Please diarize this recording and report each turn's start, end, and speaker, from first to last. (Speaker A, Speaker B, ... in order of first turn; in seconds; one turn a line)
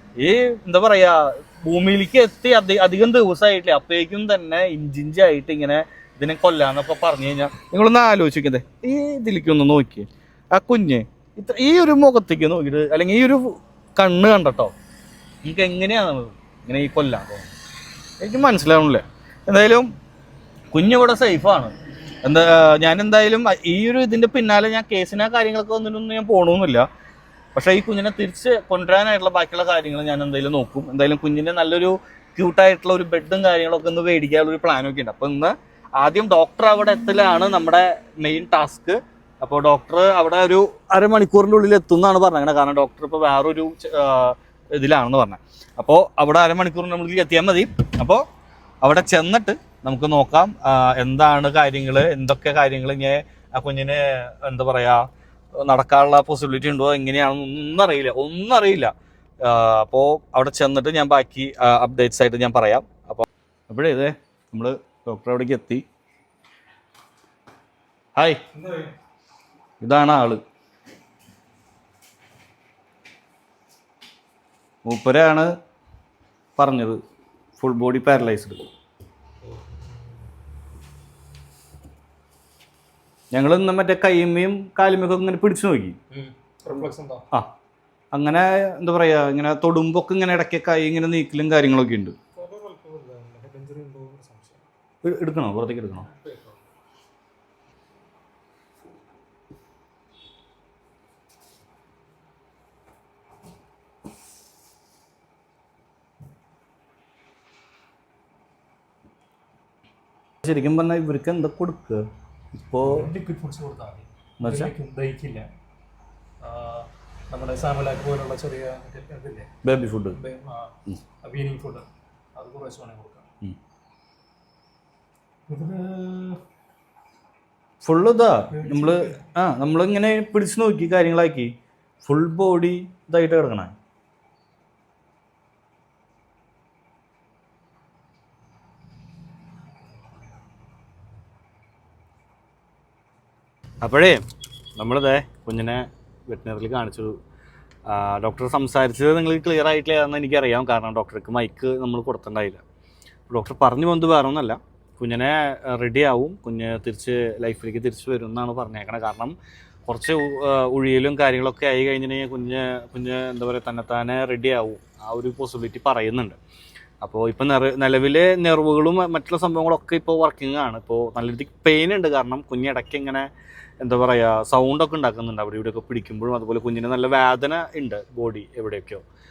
Speaker A: 0.2-14.7
Speaker A: 15.4-17.5
Speaker A: 18.2-19.9
Speaker A: 20.7-26.9
Speaker A: 27.5-48.2
Speaker A: 48.8-65.8
Speaker A: 68.2-68.4
Speaker A: 69.8-70.4
Speaker A: 74.8-75.5
Speaker A: 76.5-77.0
Speaker A: 77.6-78.6
Speaker A: 83.3-86.0
Speaker B: 86.1-87.2
Speaker A: 88.1-92.2
Speaker B: 92.3-94.6
Speaker A: 95.0-96.1
Speaker B: 96.1-96.5
Speaker A: 110.4-113.1
Speaker B: 112.8-115.5
Speaker A: 114.4-114.7
Speaker B: 116.4-119.5
Speaker A: 119.6-120.2
Speaker B: 120.0-123.3
Speaker B: 125.5-126.4
Speaker A: 127.8-131.5
Speaker B: 128.5-129.2
Speaker A: 132.0-133.7
Speaker A: 143.8-144.2
Speaker A: 144.8-147.2
Speaker A: 147.9-152.6
Speaker A: 153.3-166.3
Speaker A: 167.0-173.3
Speaker A: 173.8-179.0